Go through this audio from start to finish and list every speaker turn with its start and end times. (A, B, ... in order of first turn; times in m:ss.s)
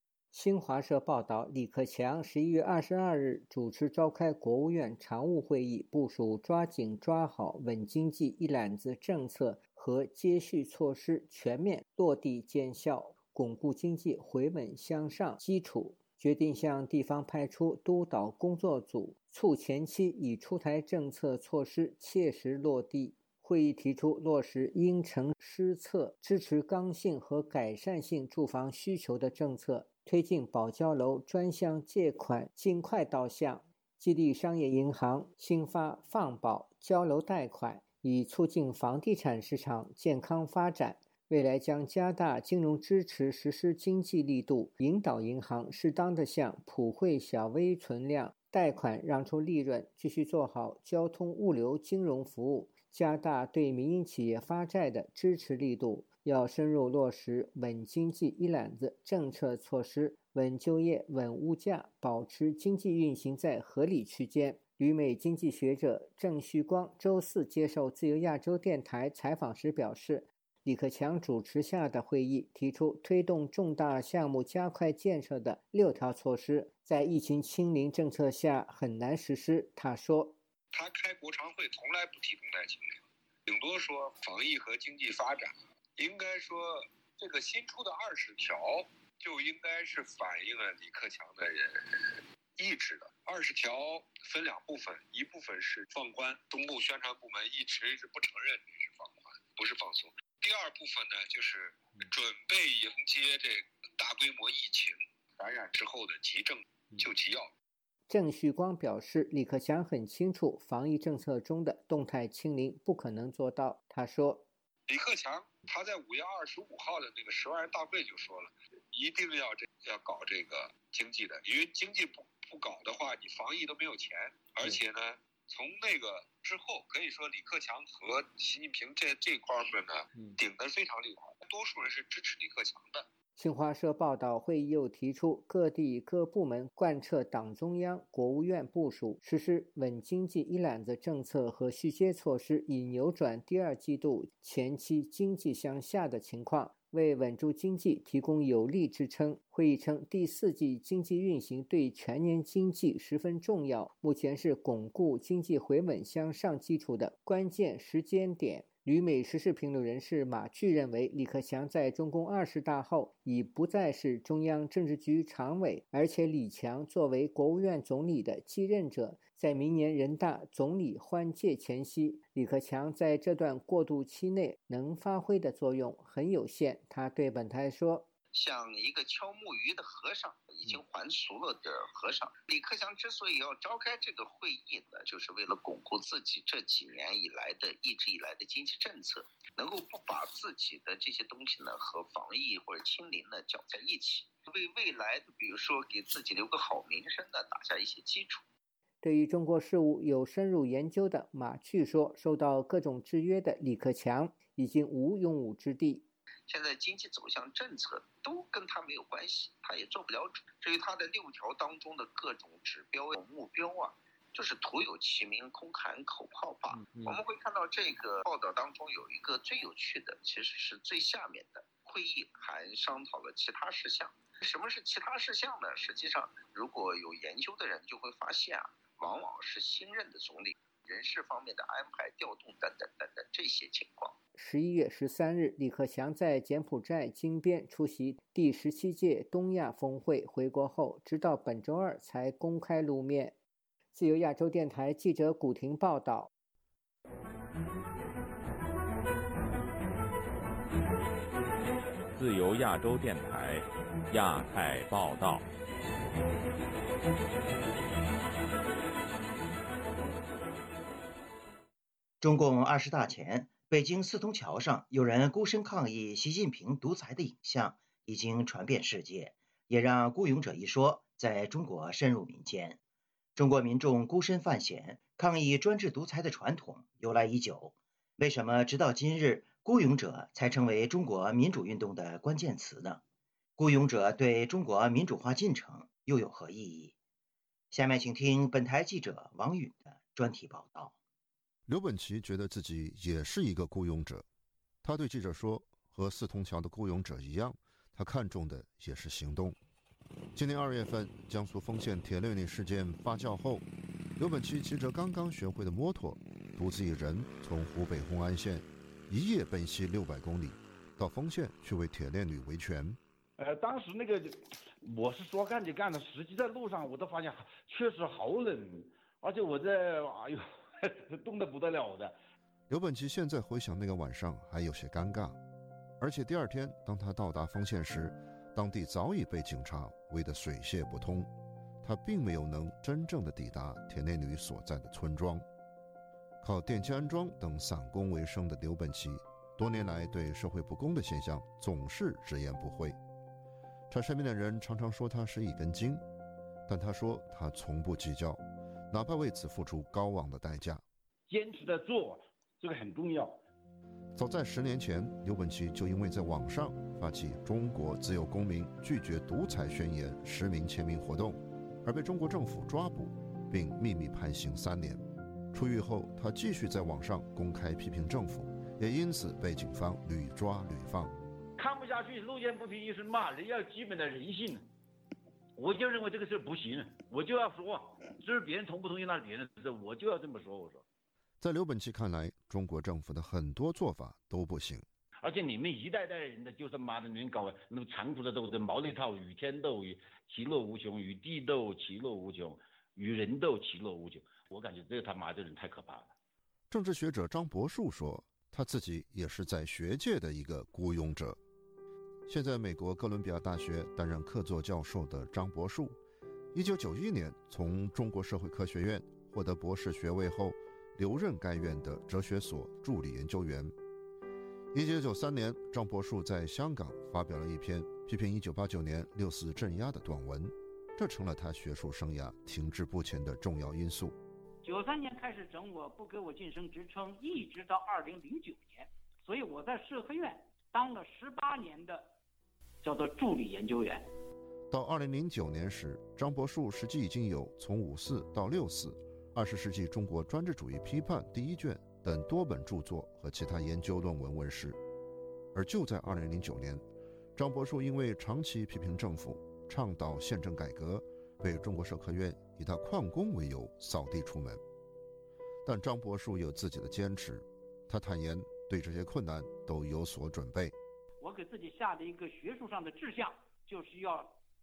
0:00.3-1:20.4 A
1:20.7-1:32.0 B
1:32.6-1:47.5 B
1:48.1-1:54.4 A
1:54.9-2:13.1 B
2:13.4-2:58.1 A
2:58.3-3:18.4 C
3:19.0-3:26.0 A
3:26.5-3:54.2 C
3:54.4-4:03.4 A
4:03.9-4:06.3 A
4:12.1-4:15.4 D
4:22.2-4:32.8 E
4:33.4-4:43.0 E
4:43.6-4:46.9 E
4:47.7-4:50.9 E
4:51.7-4:54.2 F
4:54.8-4:59.6 F
5:00.4-5:03.6 F
5:04.2-5:13.0 F
5:13.4-5:20.4 G
5:21.1-5:22.2 G
5:22.7-5:25.4 F
5:26.0-5:31.3 F
5:31.8-5:35.4 F
5:36.4-5:43.0 F
5:43.9-5:46.0 F
5:46.7-5:50.8 F
5:51.3-5:53.4 G
5:54.1-6:05.0 F
6:05.5-6:11.1 F
6:11.6-6:14.6 G
6:15.6-6:20.8 G
6:21.4-6:24.9 F
6:25.2-6:36.1 G
6:36.7-6:41.4 F
6:42.3-6:46.0 F
6:46.5-6:53.7 F
6:54.7-7:04.2 F
7:04.6-7:12.1 H
7:12.8-7:14.0 H
7:14.7-7:24.8 F
7:25.5-7:26.8 F
7:27.4-7:34.6 F
7:35.6-7:40.8 F
7:41.2-7:44.4 H